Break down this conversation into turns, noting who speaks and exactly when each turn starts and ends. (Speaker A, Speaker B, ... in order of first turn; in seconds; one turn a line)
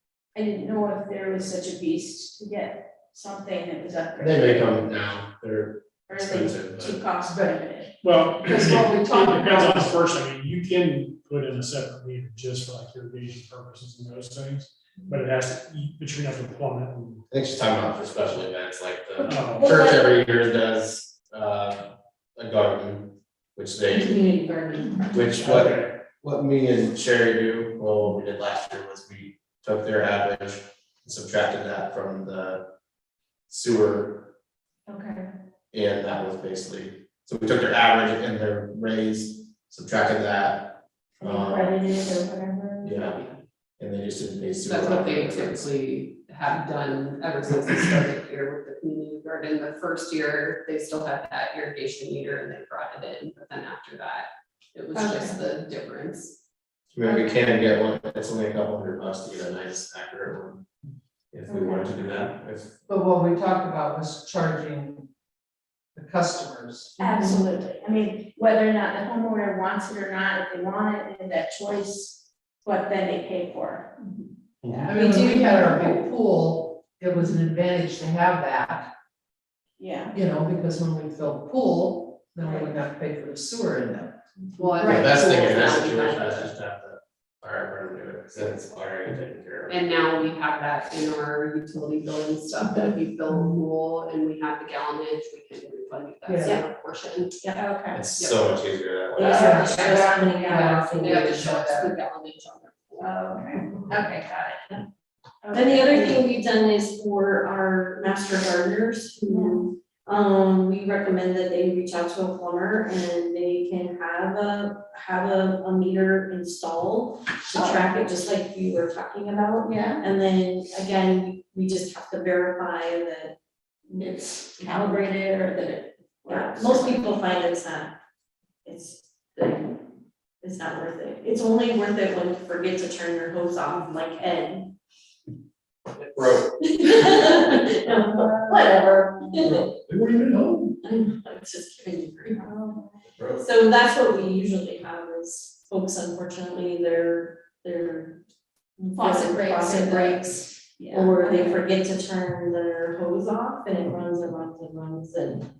Speaker A: 0.3-4.8
Speaker B: 4.2-7.0
Speaker A: 6.1-7.9
Speaker C: 7.3-7.5
Speaker D: 8.0-17.2
Speaker C: 8.4-9.9
Speaker B: 17.3-21.8
Speaker D: 19.2-19.7
Speaker E: 19.6-20.2
Speaker B: 22.4-24.1
Speaker E: 23.9-25.5
Speaker B: 25.1-32.6
Speaker B: 33.5-34.3
Speaker A: 34.9-35.2
Speaker B: 35.7-41.7
Speaker A: 41.2-43.1
Speaker B: 42.8-43.2
Speaker B: 43.8-45.7
Speaker F: 44.6-56.3
Speaker A: 55.0-55.3
Speaker B: 56.9-60.6
Speaker B: 61.3-62.7
Speaker C: 61.5-61.9
Speaker C: 62.9-65.1
Speaker C: 65.9-67.3
Speaker A: 67.0-74.0
Speaker B: 74.6-74.9
Speaker C: 74.9-78.9
Speaker A: 75.5-75.8
Speaker A: 79.8-80.1
Speaker C: 80.1-85.6
Speaker A: 82.4-82.7
Speaker F: 84.6-86.5
Speaker B: 84.8-89.8
Speaker F: 89.7-97.3
Speaker C: 93.3-93.6
Speaker C: 96.2-96.6
Speaker A: 97.6-98.0
Speaker B: 97.9-99.6
Speaker F: 98.2-98.4
Speaker E: 99.2-101.3
Speaker F: 99.2-103.1
Speaker C: 99.2-101.9
Speaker A: 99.4-100.2
Speaker A: 103.0-104.6
Speaker A: 105.4-106.2
Speaker E: 105.5-123.3
Speaker A: 109.3-109.6
Speaker A: 117.5-118.0
Speaker A: 119.6-120.0
Speaker A: 124.0-126.9
Speaker E: 126.3-127.9
Speaker E: 128.6-129.7
Speaker E: 130.4-134.7
Speaker B: 136.0-137.2
Speaker E: 136.2-139.7
Speaker A: 137.9-138.7
Speaker B: 139.4-140.8
Speaker E: 140.8-142.4
Speaker A: 142.4-143.0
Speaker E: 143.3-148.2
Speaker E: 148.8-155.5
Speaker A: 149.0-151.6